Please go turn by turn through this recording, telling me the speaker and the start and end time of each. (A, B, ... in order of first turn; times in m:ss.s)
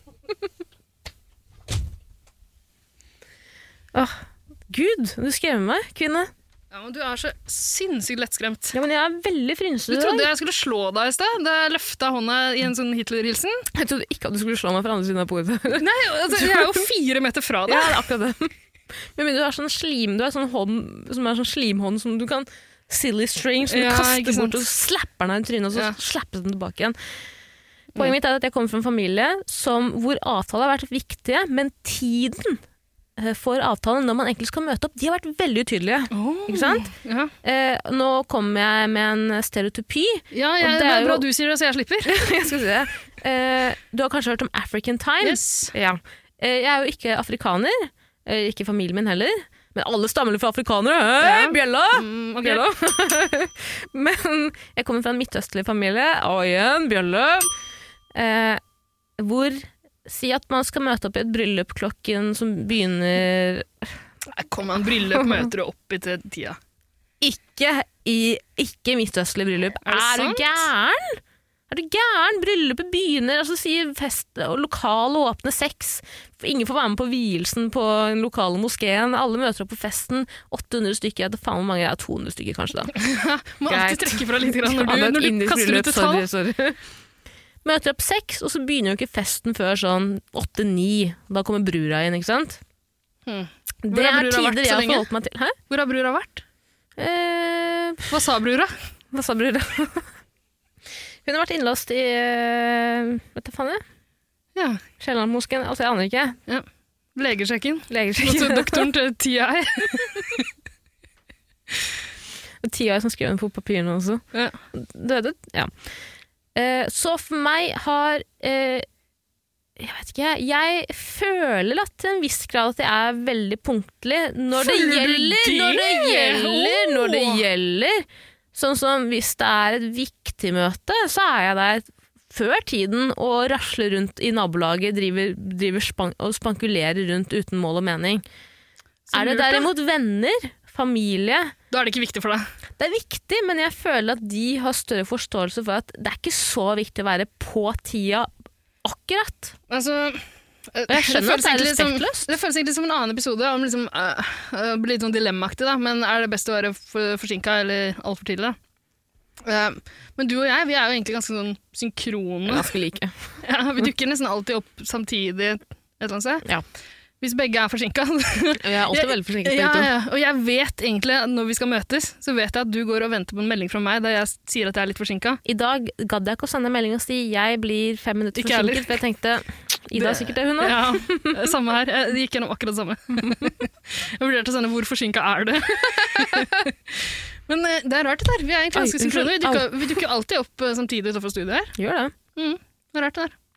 0:03.9-0:06.3 A
0:06.7-0:08.7 B
0:08.7-0:10.3 A
0:09.9-0:13.6 B
0:13.7-0:16.8 A
0:15.8-0:18.0 B
0:17.7-0:18.5 A
0:19.1-0:26.9 A
0:23.7-0:24.6 B
0:28.0-0:32.6 A
0:33.2-0:36.9 A
0:36.1-0:37.3 B
0:37.4-0:41.2 A
0:40.3-0:42.2 B
0:42.1-0:57.5 A
0:45.2-0:45.7 B
0:51.2-0:52.6 B
0:58.1-0:58.6 A
0:59.2-1:03.9 A
1:04.3-1:06.6 B
1:07.2-1:22.9 A
1:09.8-1:10.7 B
1:22.9-1:26.2 B
1:23.7-1:26.8 A
1:27.6-1:32.6 A
1:33.2-1:35.1 B
1:33.8-1:35.5 A
1:35.7-1:36.4 B
1:37.0-1:38.2 A
1:38.1-1:38.7 B
1:39.1-1:40.1 A
1:41.2-1:43.8 A
1:44.6-1:44.8 B
1:45.0-1:46.4 A
1:46.5-1:50.4 B
1:47.9-1:48.8 A
1:52.6-1:55.7 A
1:56.5-1:58.8 A
1:59.8-2:18.2 A
2:04.6-2:07.4 B
2:19.1-2:19.7 B
2:19.1-2:21.5 A
2:21.7-2:22.4 B
2:22.8-2:28.3 A
2:28.8-2:29.5 A
2:29.7-2:38.6 B
2:30.9-2:32.3 A
2:39.4-2:42.7 B
2:42.5-2:43.1 A
2:43.4-2:46.4 B
2:47.2-2:55.4 B
2:48.6-2:49.9 A
2:55.4-3:01.5 A
2:58.4-2:58.9 B
3:00.0-3:11.7 B
3:06.1-3:06.6 A
3:08.7-3:10.0 A
3:11.8-3:12.1 A
3:12.4-3:13.3 B